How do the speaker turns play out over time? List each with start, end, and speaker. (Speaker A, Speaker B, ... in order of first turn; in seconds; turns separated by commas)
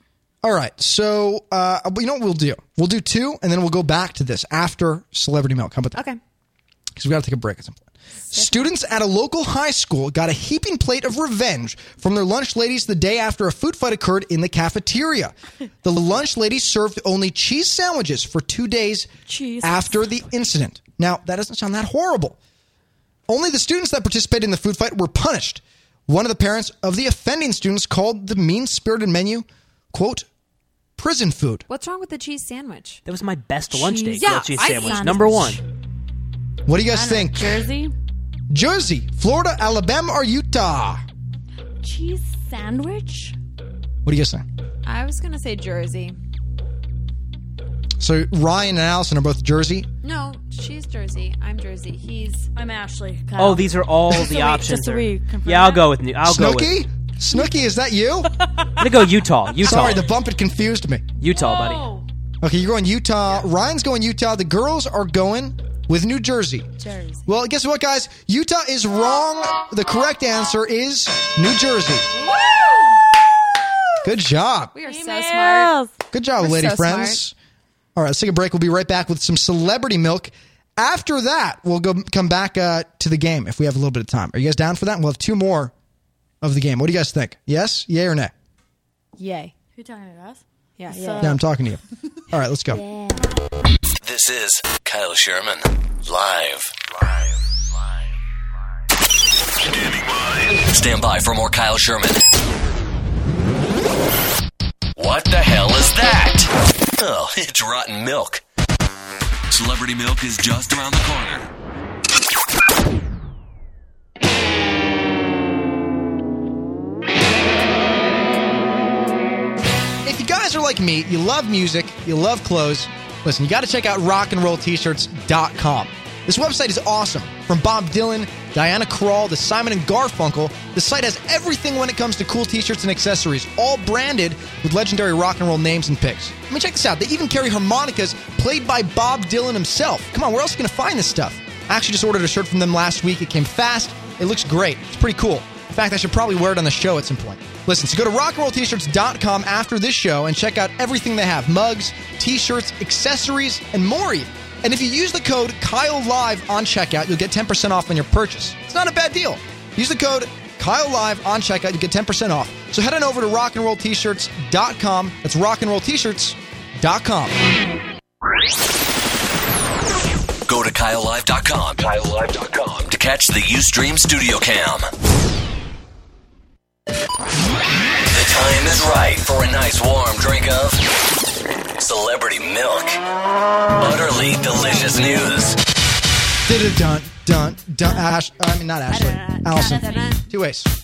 Speaker A: 0.4-6.0, Speaker B: 5.9-6.2, Speaker A: 6.9-19.1, Speaker B: 8.3-8.7, Speaker C: 19.3-20.0, Speaker A: 19.6-22.4, Speaker A: 23.3-30.3, Speaker A: 31.0-31.6, Speaker B: 31.7-33.0, Speaker D: 33.1-35.6, Speaker C: 33.7-35.6, Speaker B: 34.1-35.2, Speaker A: 36.6-37.7, Speaker C: 36.9-37.9, Speaker A: 38.5-41.0, Speaker C: 41.8-43.4, Speaker A: 44.0-44.5, Speaker B: 44.9-46.1, Speaker A: 48.0-49.9, Speaker B: 50.0-52.5, Speaker C: 52.5-55.9, Speaker D: 53.4-56.8, Speaker A: 56.2-58.3, Speaker D: 58.8-60.1, Speaker A: 59.6-61.1, Speaker D: 61.2-61.9, Speaker C: 61.3-62.0, Speaker A: 62.4-66.7, Speaker B: 66.8-67.3, Speaker A: 67.3-72.1, Speaker B: 72.2-73.0, Speaker A: 74.0-74.7, Speaker B: 74.7-75.7, Speaker C: 74.8-75.9, Speaker A: 76.1-77.3, Speaker B: 76.4-77.2, Speaker A: 77.9-85.7, Speaker A: 86.4-88.3, Speaker B: 89.2-89.5, Speaker C: 89.8-91.4, Speaker B: 90.8-91.4, Speaker A: 91.2-92.8, Speaker C: 92.7-93.3, Speaker E: 94.0-97.4, Speaker E: 99.7-102.2, Speaker E: 105.0-108.4, Speaker E: 109.5-111.5, Speaker A: 120.0-167.4, Speaker E: 170.4-174.9, Speaker E: 178.1-180.8, Speaker E: 181.8-183.0, Speaker E: 183.8-185.6, Speaker A: 186.4-190.7, Speaker C: 188.9-190.2, Speaker B: 189.1-190.3